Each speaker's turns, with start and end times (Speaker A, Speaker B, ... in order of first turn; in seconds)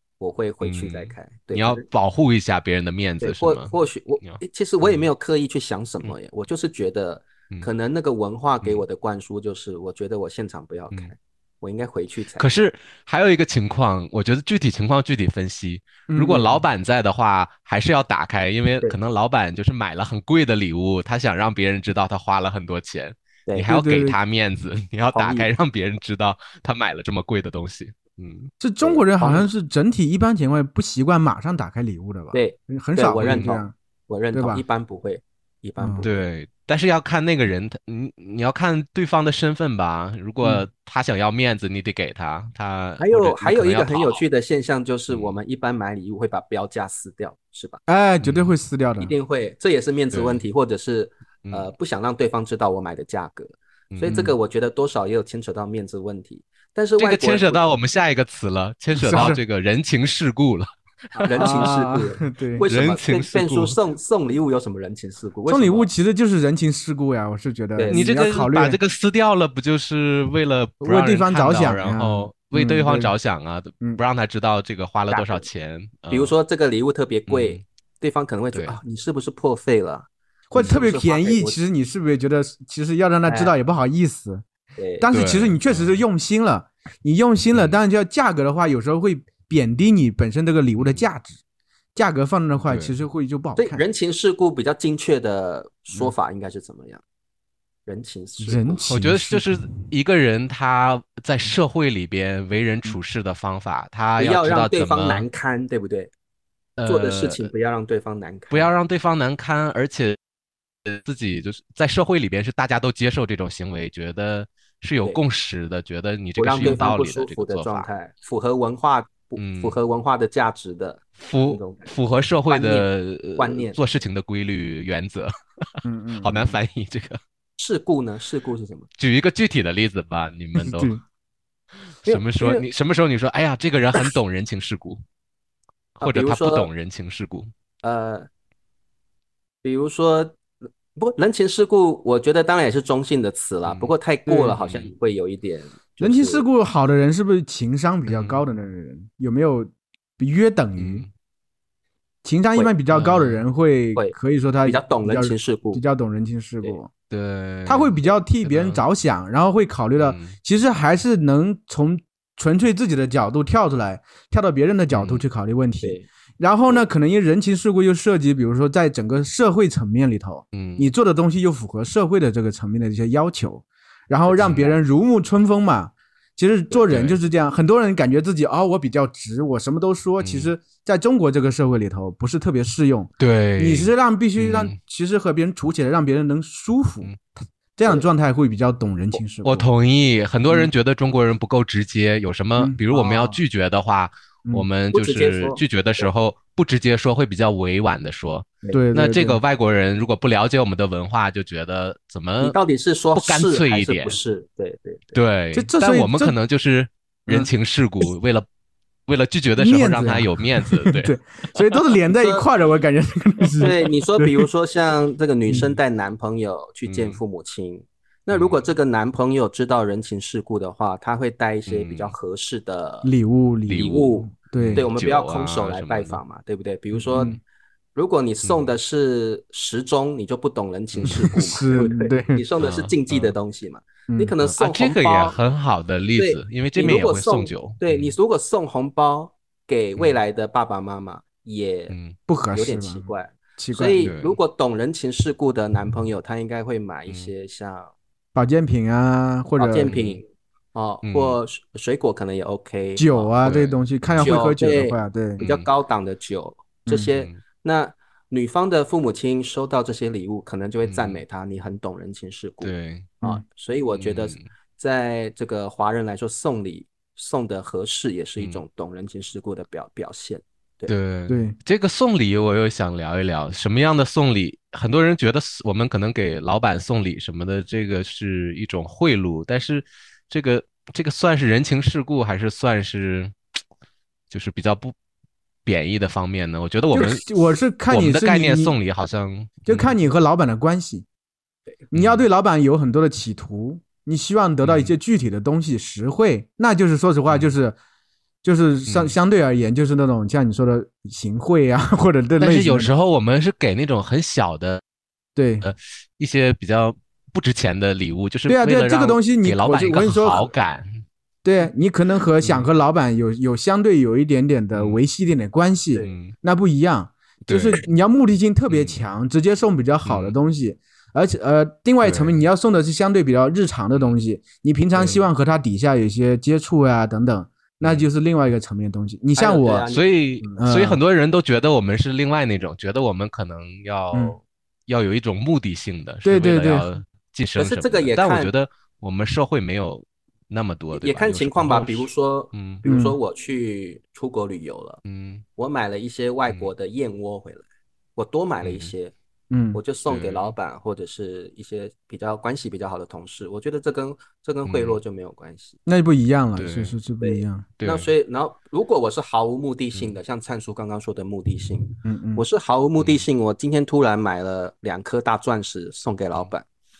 Speaker A: 0.2-1.8, 3.2-12.5, 25.1-25.5, 28.8-29.5, 32.3-36.1, 43.0-47.8, 49.0-57.8, 61.2-65.9, 67.8-68.0, 75.1-75.5, 76.1-81.6, 83.2-83.5, 84.8-85.1, 93.6-97.0, 97.8-98.8, 104.2-106.1, 106.8-108.7, 116.4-121.9, 122.5-123.8, 127.6-128.9, 132.1-132.6, 136.0-136.7, 137.8-138.3, 139.6-140.4, 140.9-146.4, 153.9-155.8, 174.3-174.7, 194.9-196.1, 202.4-205.2, 212.1-212.4, 213.6-223.1, 223.7-227.3, 227.9-235.4, 236.2-241.9, 242.5-247.9, 249.6-253.3, 254.2-270.9, 324.9-325.2, 329.4-330.5, 337.6-338.5, 340.9-345.0, 345.6-347.6, 348.1-349.1, 349.7-355.8, 357.2-366.6
Speaker B: 0.6-5.1, 12.4-28.5, 33.2-33.5, 36.0-44.2, 45.1-45.4, 48.2-48.5, 50.1-50.4, 51.4-51.7, 53.9-54.3, 57.0-61.7, 62.6-63.8, 67.9-76.3, 77.3-77.6, 78.5-78.8, 85.1-86.0, 90.8-91.0, 92.7-93.0, 98.9-105.2, 106.8-107.5, 108.5-110.2, 110.8-117.9, 119.4-119.8, 121.2-125.7, 126.2-127.2, 129.0-130.9, 132.0-135.0, 136.0-137.5, 143.6-143.9, 144.6-144.9, 148.1-148.4, 150.8-151.1, 152.9-153.4, 157.1-158.8, 160.0-160.3, 164.9-165.2, 170.5-170.9, 174.4-174.7, 176.9-177.2, 180.2-180.5, 183.2-184.8, 189.4-202.6, 203.1-204.2, 205.1-208.4, 209.1-211.2, 216.8-217.2, 218.3-218.6, 221.7-222.1, 223.7-224.0, 224.6-226.2, 227.1-227.4, 228.4-228.7, 230.9-231.3, 232.6-233.3, 234.4-238.1, 241.9-242.2, 244.0-244.4, 249.9-250.2, 251.0-251.4, 253.4-253.8, 255.4-255.7, 260.8-261.2, 262.6-263.1, 263.9-264.5, 270.9-283.4, 284.3-284.9, 285.6-287.3, 287.9-289.9, 291.9-292.2, 294.6-294.9, 297.3-297.5, 298.9-299.1, 302.4-304.8, 305.6-311.0, 312.4-312.7, 314.7-315.0, 316.0-316.3, 317.4-317.8, 318.7-319.0, 320.0-320.4, 322.0-322.4, 327.8-328.1, 329.9-342.8, 345.0-345.4, 348.6-348.9, 350.1-350.5, 354.6-355.0, 356.6-356.9, 357.8-358.1, 363.0-363.2
Speaker C: 16.1-16.6, 23.6-24.2, 28.6-33.7, 34.3-34.6, 35.8-36.0, 47.9-49.1, 58.9-59.4, 61.3-62.6, 65.5-68.8, 70.8-73.1, 80.5-84.4, 85.0-91.4, 91.9-93.8, 98.4-99.7, 116.6-116.8, 125.8-126.5, 130.6-131.0, 144.3-144.6, 146.0-151.1, 152.2-156.9, 157.7-187.1, 187.8-189.7, 192.6-193.4, 198.7-199.4, 205.5-206.3, 209.6-214.5, 215.5-215.8, 223.0-224.8, 231.1-232.4, 234.1-234.3, 242.3-244.1, 248.3-249.9, 253.0-255.4, 271.3-271.6, 286.9-288.8, 289.6-291.1, 291.9-297.8, 298.4-302.9, 305.4-305.6, 308.5-310.5, 311.4-329.9, 330.6-331.0, 336.2-336.9, 342.8-343.2, 349.5-349.8, 355.9-357.7, 362.0-362.4